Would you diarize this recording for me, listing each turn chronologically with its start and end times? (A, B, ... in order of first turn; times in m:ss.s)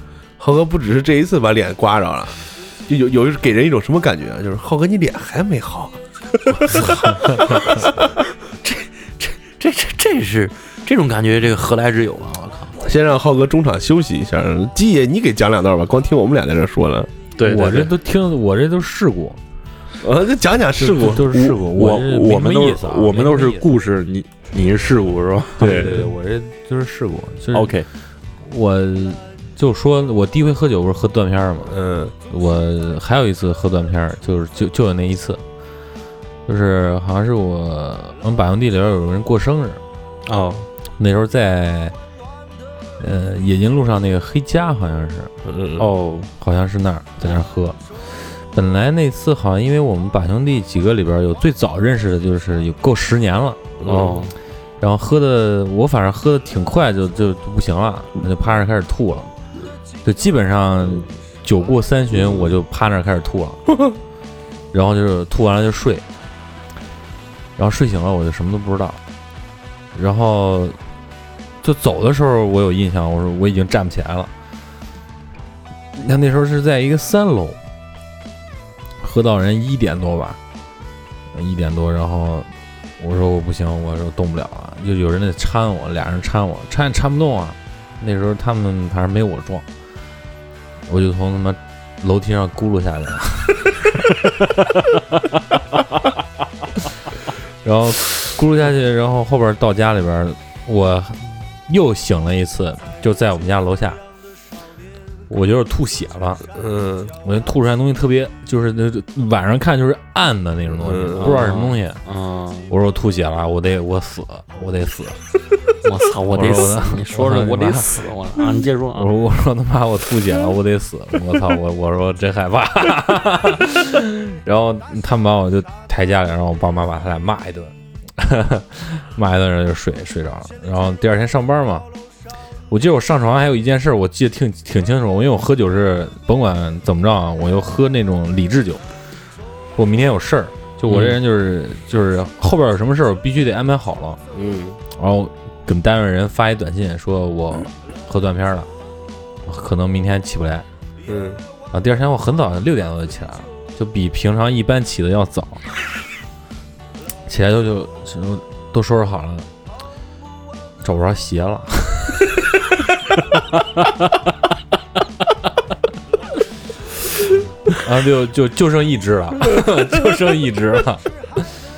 0:00.4-0:07.9 A
0:06.7-0:07.4 B
0:07.2-0:07.6 C
0:08.6-0:12.7 B
0:12.8-0:17.1 A
0:17.4-0:17.9 B
0:17.4-0:19.4 C
0:20.0-0:21.3 A
0:20.8-0:23.7 C
0:21.2-0:26.0 B
0:25.6-0:27.8 C
0:25.6-0:26.1 A
0:27.5-0:27.9 B
0:28.4-0:31.7 C
0:31.7-0:32.1 A
0:32.3-0:35.4 C
0:36.4-0:39.8 C
0:40.3-0:40.7 B
0:41.0-0:41.9 C
0:43.0-0:45.3 C
0:45.4-0:45.8 A
0:45.8-0:46.3 B
0:46.4-0:53.7 C
0:53.8-0:54.2 A
0:53.8-0:54.3 B
0:54.8-0:59.3 C
1:00.0-1:03.6 C
1:04.7-1:06.0 C
1:07.6-1:09.0 C
1:09.9-1:10.8 C
1:11.6-1:14.3 C
1:16.0-1:17.6 C
1:19.0-1:20.4 C
1:21.3-1:22.5 C
1:23.0-1:29.6 C
1:30.9-1:33.7 C
1:37.6-1:44.0 C
1:45.3-1:46.4 C
1:46.5-1:47.1 A
1:47.2-1:52.0 C
1:50.8-1:51.4 A
1:51.1-1:52.7 B
1:52.7-1:55.2 C
1:55.8-1:59.1 B
1:56.3-1:58.0 C
1:58.9-2:11.8 C
2:12.7-2:18.8 C
2:19.8-2:24.2 C
2:20.9-2:21.2 B
2:24.3-2:24.8 A
2:25.0-2:28.7 C
2:29.5-2:30.6 C
2:31.0-2:31.4 A
2:31.7-2:35.7 C
2:37.3-2:39.4 C
2:40.8-2:42.4 C
2:47.7-2:51.6 C